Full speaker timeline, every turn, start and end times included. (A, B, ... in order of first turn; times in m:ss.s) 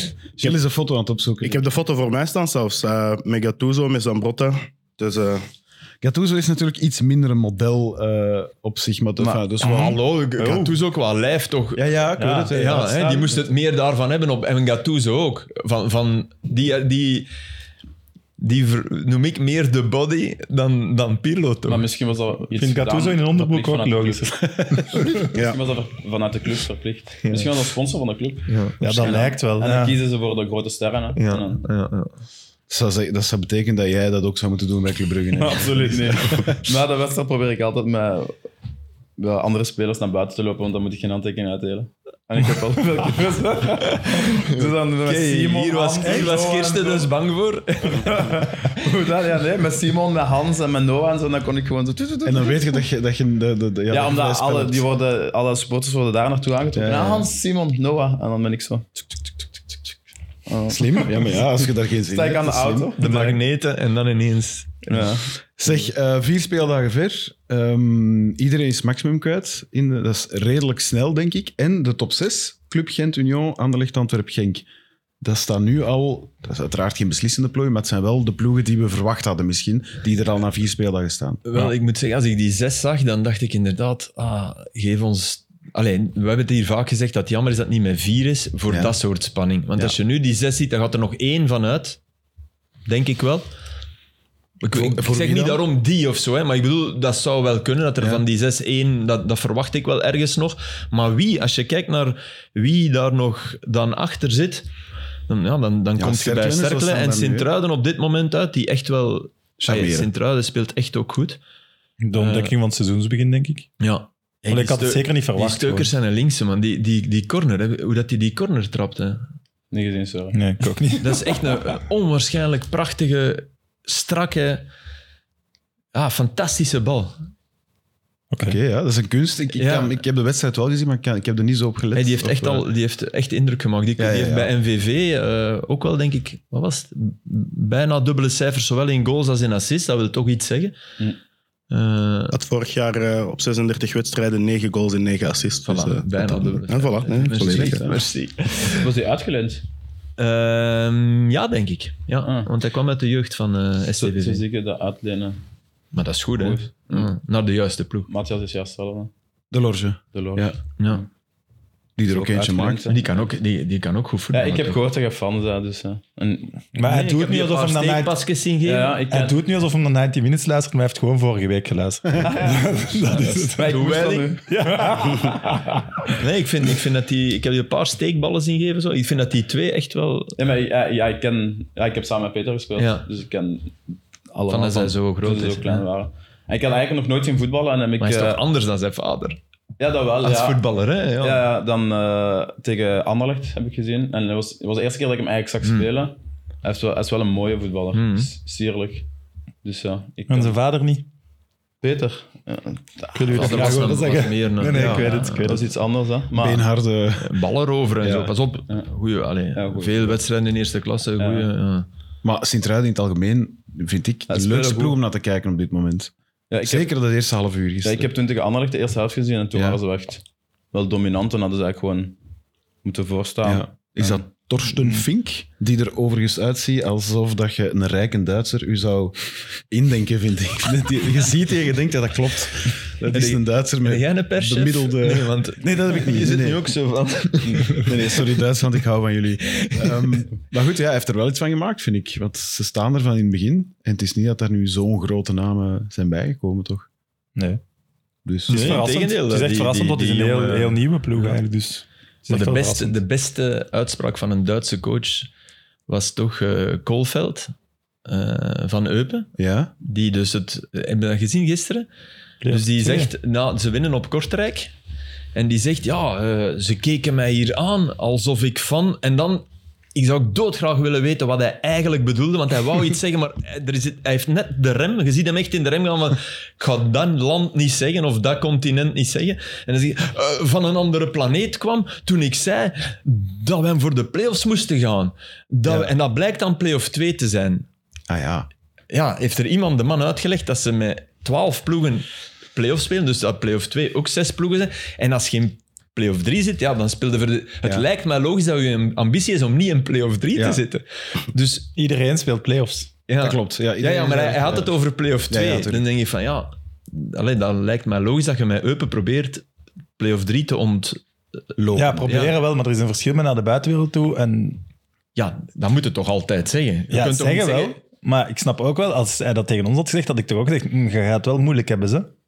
0:00.4-0:01.6 A
0:01.4-0:05.4 B
0:06.0-0:10.0 A
0:09.6-0:11.9 C
0:09.6-0:10.8 D
0:11.8-0:13.4 A
0:12.2-0:12.5 D
0:12.4-0:17.3 C
0:18.4-0:21.9 C
0:21.7-0:24.3 E
0:22.6-0:25.1 D
0:24.6-0:25.6 A
0:25.1-0:31.6 E
0:27.2-0:27.5 C
0:28.5-0:28.8 C
0:28.8-0:29.9 D
0:31.2-0:32.2 C
0:32.7-0:36.7 A
0:35.3-0:38.4 E
0:39.2-0:47.1 E
0:43.9-0:48.5 C
0:47.8-0:52.8 E
0:52.2-0:54.8 A
0:53.9-0:59.1 E
0:56.7-0:57.3 A
1:00.5-1:03.4 E
1:00.7-1:02.9 A
1:03.0-1:04.9 C
1:04.9-1:05.3 E
1:05.6-1:14.6 A
1:15.2-1:21.4 A
1:21.4-1:32.0 C
1:28.7-1:29.0 A
1:32.9-1:33.5 C
1:34.6-1:44.7 C
1:34.7-1:35.6 A
1:45.3-1:51.4 C
1:46.0-1:47.5 A
1:49.6-1:50.1 A
1:52.0-1:53.7 D
1:52.2-1:52.5 C
1:53.8-1:59.3 C
1:54.5-1:55.9 D
1:59.7-2:00.4 E
2:00.3-2:01.4 D
2:01.0-2:04.7 C
2:05.9-2:07.2 C
2:08.3-2:08.6 D
2:08.4-2:12.7 A
2:09.5-2:10.0 C
2:11.9-2:20.8 C
2:14.0-2:14.5 A
2:21.7-2:22.4 C
2:22.3-2:27.9 B
2:25.7-2:28.9 C
2:27.4-2:28.0 A
2:28.6-2:29.6 E
2:30.2-2:34.4 C
2:32.2-2:32.5 E
2:34.0-2:35.4 E
2:35.9-2:38.1 C
2:36.4-2:37.1 E
2:38.1-2:39.1 E
2:39.5-2:40.6 A
2:40.1-2:40.5 E
2:40.8-2:41.0 C
2:42.0-2:42.9 A
2:42.1-2:43.2 E
2:42.9-2:44.8 C
2:44.3-2:46.6 E
2:46.7-2:48.2 D
2:46.8-2:49.0 C
2:48.6-2:49.4 E
2:49.1-2:53.7 D
2:52.2-2:54.6 E
2:53.1-2:54.3 C
2:54.5-2:56.1 D
2:56.1-3:00.4 C
3:00.4-3:08.4 E
3:02.8-3:03.1 C
3:04.5-3:05.8 C
3:08.0-3:09.4 C
3:09.8-3:10.6 E
3:10.2-3:11.4 C
3:11.2-3:19.1 E
3:17.9-3:18.3 C
3:19.6-3:20.6 E
3:20.3-3:21.1 D
3:21.8-3:24.0 E
3:23.1-3:25.7 D
3:23.3-3:25.6 C
3:24.7-3:25.1 A
3:25.2-3:26.7 E
3:26.3-3:27.4 A
3:27.2-3:31.9 C
3:28.0-3:28.3 A
3:29.6-3:30.2 E
3:31.2-3:31.5 E
3:32.2-3:36.1 A
3:34.3-3:35.0 E
3:36.5-3:36.9 E
3:36.6-3:38.1 A
3:37.8-3:42.2 E
3:39.5-3:39.8 A
3:42.8-3:44.2 E
3:43.4-3:56.7 A
3:53.1-3:58.2 C
3:57.6-4:06.9 A
3:59.5-4:00.2 C
4:08.2-4:08.9 A
4:08.5-4:11.4 C
4:08.5-4:13.0 D
4:12.3-4:15.3 C
4:15.9-4:17.5 C
4:18.0-4:21.9 C
4:19.4-4:19.7 A
4:22.4-4:23.1 D
4:22.5-4:24.7 C
4:25.3-4:47.7 C
4:45.7-4:45.9 A
4:48.1-4:48.5 A
4:48.9-5:01.7 C
5:00.4-5:00.6 A
5:01.7-5:02.9 D
5:03.1-5:09.4 C
5:03.2-5:05.8 A
5:10.0-5:11.0 C
5:11.6-5:12.1 A
5:11.8-5:14.6 D
5:12.0-5:12.3 C
5:15.2-5:17.8 C
5:16.9-5:22.1 D